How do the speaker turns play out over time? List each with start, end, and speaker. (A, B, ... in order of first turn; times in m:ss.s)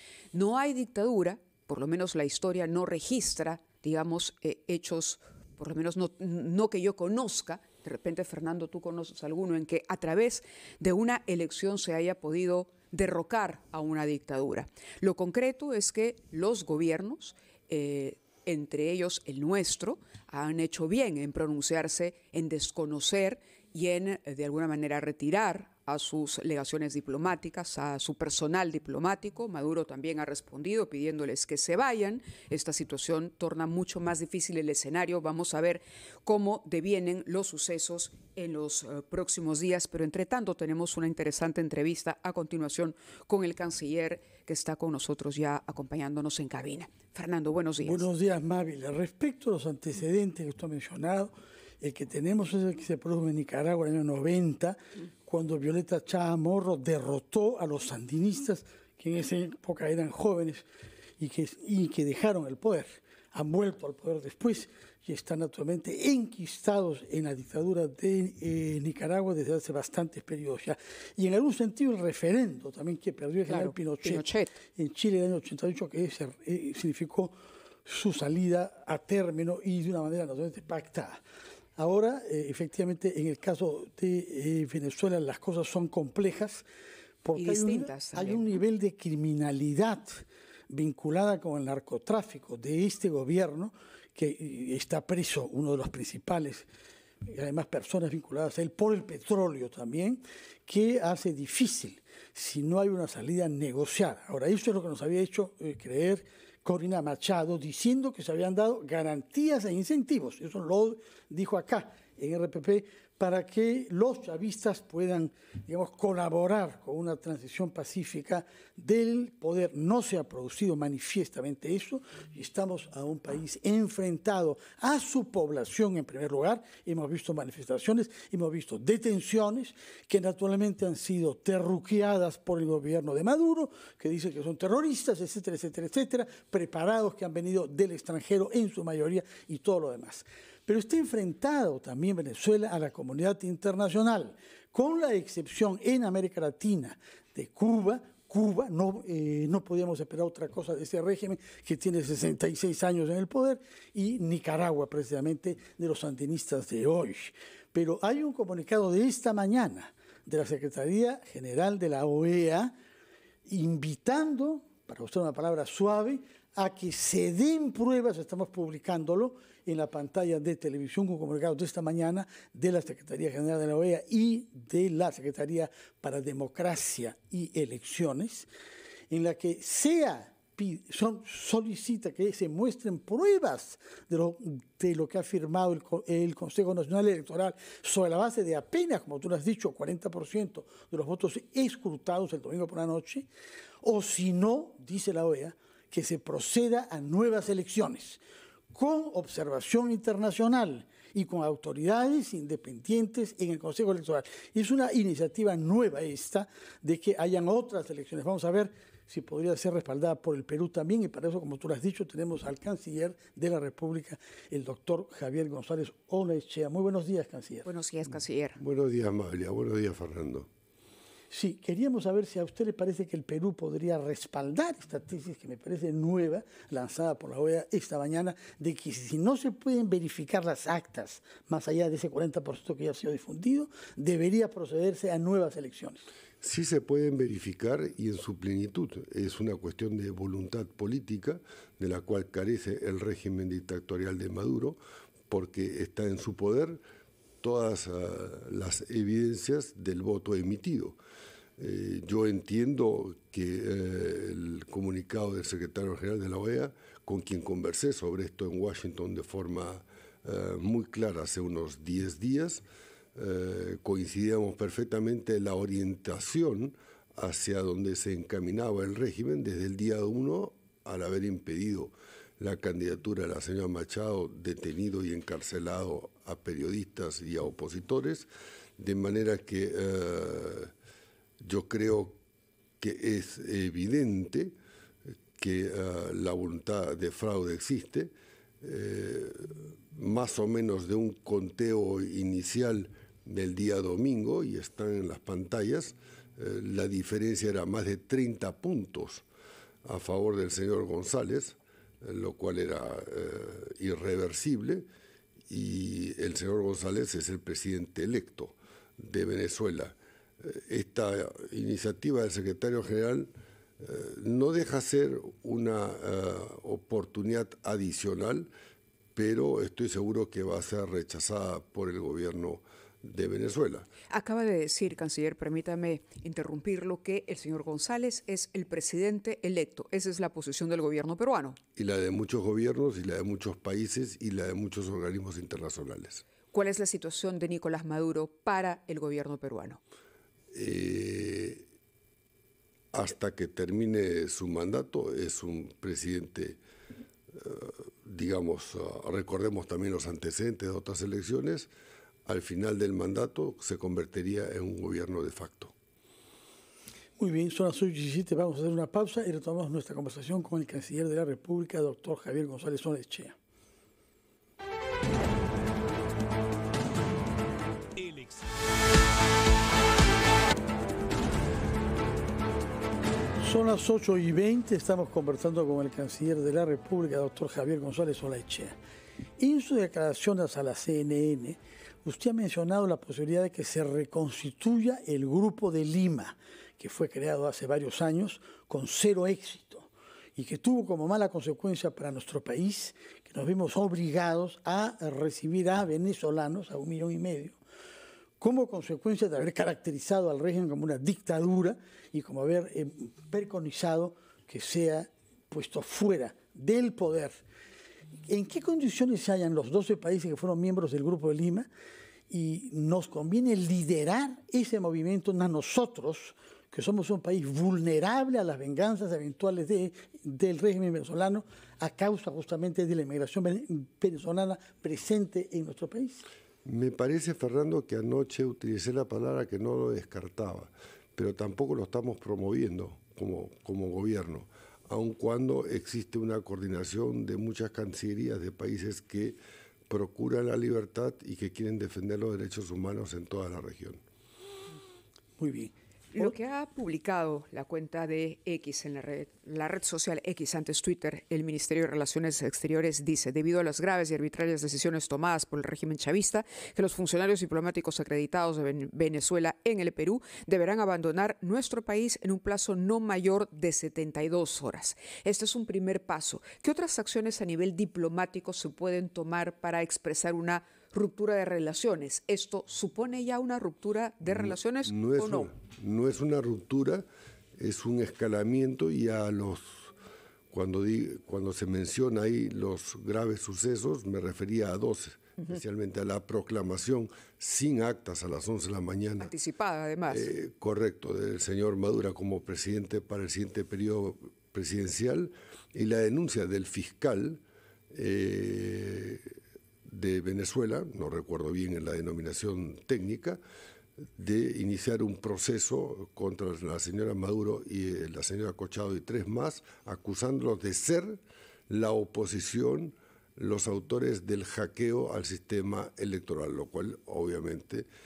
0:00.3-0:48.1 A
0:47.8-1:00.6 B
1:01.2-1:17.4 B
1:13.5-1:14.6 A
1:17.9-1:21.2 B
1:21.8-1:26.6 B
1:27.2-1:36.7 B
1:27.4-1:28.4 A
1:37.3-2:42.7 B
2:43.5-2:58.5 B
2:59.1-3:13.3 B
3:13.8-3:18.2 B
3:18.7-3:37.7 B
3:37.6-3:38.6 A
3:38.6-3:40.5 C
3:41.3-3:56.0 B
3:56.4-4:04.8 C
4:05.3-4:06.8 C
4:07.4-4:11.0 C
4:11.6-4:22.6 C
4:23.2-4:38.3 C
4:38.8-4:40.7 C
4:41.4-4:42.2 C
4:42.8-4:44.6 C
4:45.4-4:59.2 C
4:59.8-5:04.8 C
5:05.5-5:18.5 C
5:19.2-5:23.9 C
5:24.1-5:31.6 A
5:31.8-5:36.2 C
5:36.5-5:39.8 A
5:40.5-5:41.6 C
5:42.9-5:46.6 C
5:47.3-5:51.7 C
5:52.3-5:55.7 C
5:57.2-6:03.4 B
6:13.4-6:18.8 B
6:19.4-6:37.6 B
6:38.4-6:47.4 B
6:48.3-6:51.7 B
6:52.3-7:06.2 B
7:06.6-7:19.4 C
7:19.9-7:24.0 C
7:25.4-7:26.3 B
7:26.1-7:55.5 A
7:54.2-7:57.1 C
7:57.6-7:59.9 C
8:00.5-8:09.3 C
8:09.2-8:10.3 A
8:10.1-8:19.3 C
8:19.8-8:23.4 C
8:24.2-8:37.9 C